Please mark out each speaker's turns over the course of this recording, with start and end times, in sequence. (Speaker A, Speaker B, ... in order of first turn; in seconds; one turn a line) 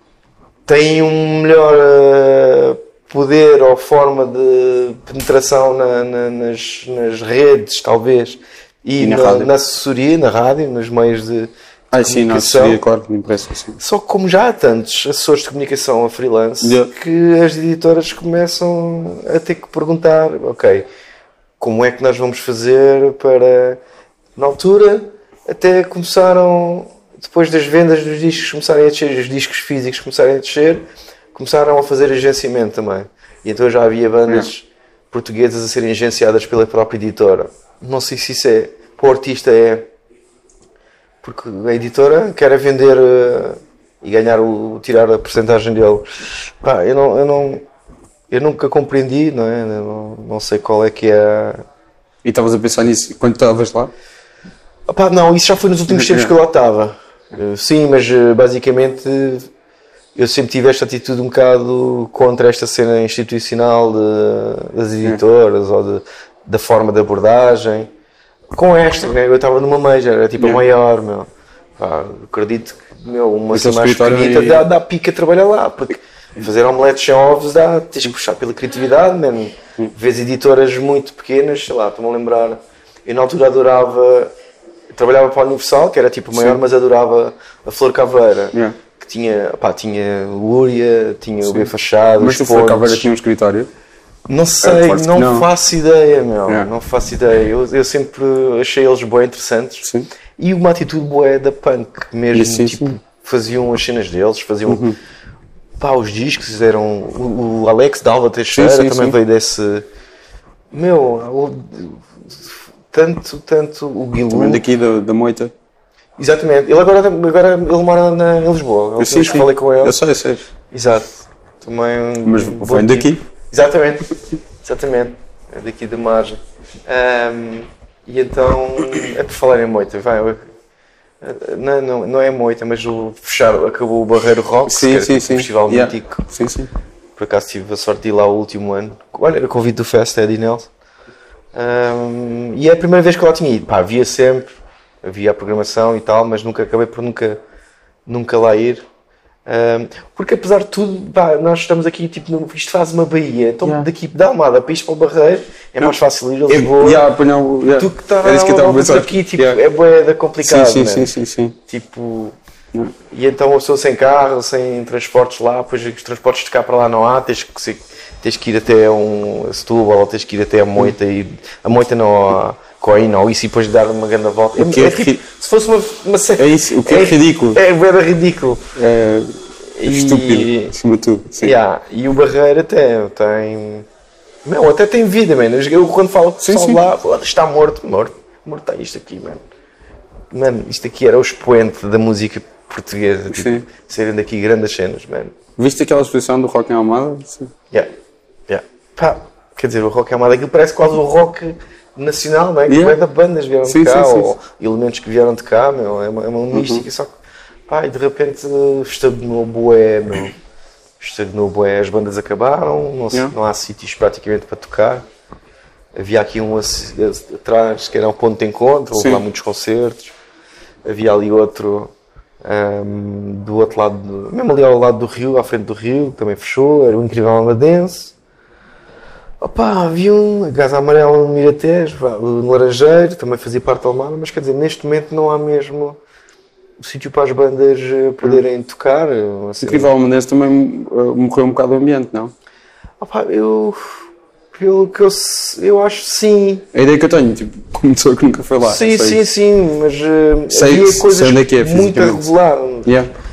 Speaker A: 0.7-12.8
Speaker B: 9.0-9.5
Speaker B: 11.9-13.8
Speaker A: 13.8-20.9
Speaker B: 16.6-16.9
Speaker A: 21.6-23.8
Speaker A: 24.4-39.9
Speaker A: 41.2-47.6
Speaker A: 48.3-51.6
Speaker B: 52.2-53.9
Speaker A: 54.9-59.5
Speaker B: 55.9-56.3
Speaker A: 60.1-67.9
Speaker A: 68.5-84.3
Speaker B: 73.5-74.7
Speaker A: 84.9-93.1
Speaker B: 86.3-86.6
Speaker B: 88.5-88.8
Speaker B: 92.2-93.7
Speaker A: 94.3-104.9
Speaker B: 94.6-95.5
Speaker B: 102.3-103.0
Speaker B: 104.7-105.0
Speaker A: 105.8-109.8
Speaker B: 108.5-109.2
Speaker A: 110.7-114.6
Speaker B: 114.3-115.5
Speaker A: 116.2-120.0
Speaker B: 119.0-120.5
Speaker A: 120.7-130.5
Speaker B: 122.2-123.2
Speaker A: 131.2-136.3
Speaker B: 134.7-136.7
Speaker A: 137.2-140.7
Speaker A: 141.5-144.5
Speaker A: 145.0-147.4
Speaker A: 148.1-148.8
Speaker A: 149.5-157.0
Speaker B: 153.6-153.9
Speaker B: 156.5-159.6
Speaker A: 157.8-161.1
Speaker B: 160.4-161.6
Speaker A: 161.7-162.4
Speaker A: 163.1-178.7
Speaker B: 174.6-175.2
Speaker B: 176.4-177.6
Speaker B: 178.7-181.5
Speaker A: 179.7-180.7
Speaker A: 181.4-183.9
Speaker A: 184.4-189.4
Speaker B: 186.4-186.8
Speaker A: 190.3-195.3
Speaker B: 193.3-193.6
Speaker B: 195.6-197.5
Speaker A: 198.5-207.1
Speaker B: 202.7-203.0
Speaker B: 203.6-204.3
Speaker B: 206.5-206.8
Speaker A: 207.7-210.3
Speaker A: 211.0-215.0
Speaker A: 215.9-220.1
Speaker B: 219.0-219.2
Speaker A: 220.8-221.9
Speaker A: 222.4-228.1
Speaker A: 229.4-236.0
Speaker A: 236.8-239.9
Speaker B: 239.6-242.3
Speaker A: 243.0-246.7
Speaker B: 246.7-249.2
Speaker A: 248.6-252.9
Speaker B: 250.5-252.3
Speaker B: 252.8-253.1